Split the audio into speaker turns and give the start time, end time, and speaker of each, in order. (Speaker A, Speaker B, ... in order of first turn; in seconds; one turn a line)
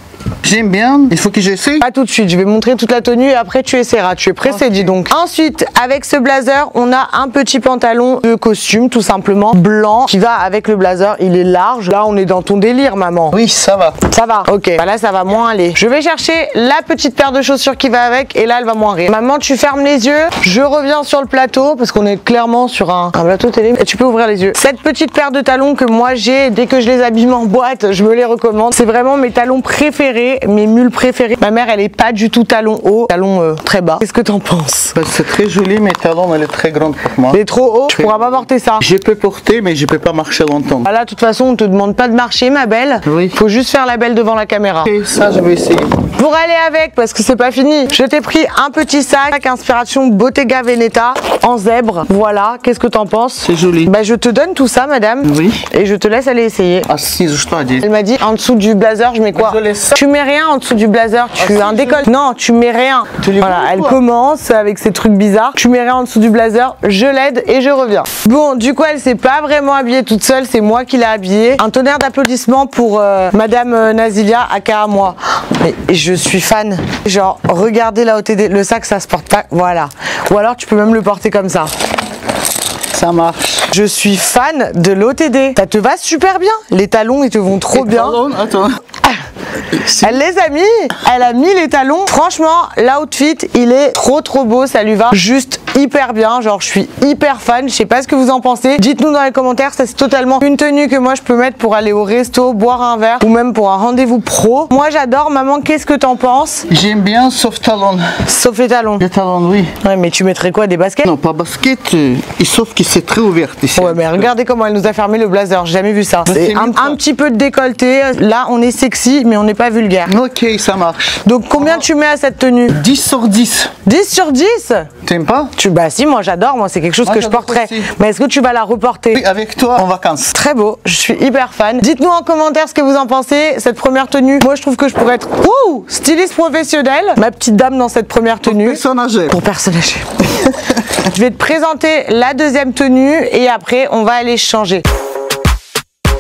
Speaker A: 0.4-1.8
Speaker B: 1.8-13.4
Speaker A: 4.4-5.0
Speaker A: 13.3-14.0
Speaker B: 14.0-35.0
Speaker A: 35.0-40.9
Speaker B: 37.3-38.8
Speaker B: 40.8-44.9
Speaker A: 43.0-43.4
Speaker A: 44.8-46.1
Speaker B: 46.2-56.9
Speaker A: 53.4-53.9
Speaker A: 55.3-55.6
Speaker A: 56.9-57.9
Speaker B: 57.8-81.7
Speaker A: 59.3-60.0
Speaker A: 61.4-62.1
Speaker A: 63.2-64.0
Speaker A: 82.9-83.7
Speaker B: 83.7-88.2
Speaker A: 87.7-88.8
Speaker A: 89.7-90.1
Speaker B: 89.8-106.7
Speaker A: 106.7-108.2
Speaker B: 108.2-109.0
Speaker A: 109.0-109.8
Speaker B: 109.8-111.1
Speaker A: 111.0-114.3
Speaker B: 113.8-120.2
Speaker A: 116.2-117.0
Speaker A: 120.1-121.8
Speaker B: 121.2-122.8
Speaker A: 122.7-123.7
Speaker B: 123.8-124.9
Speaker A: 125.0-125.5
Speaker B: 125.6-129.2
Speaker A: 127.0-127.9
Speaker A: 129.1-130.3
Speaker B: 130.3-140.0
Speaker A: 138.4-139.4
Speaker A: 140.5-140.8
Speaker B: 141.0-144.8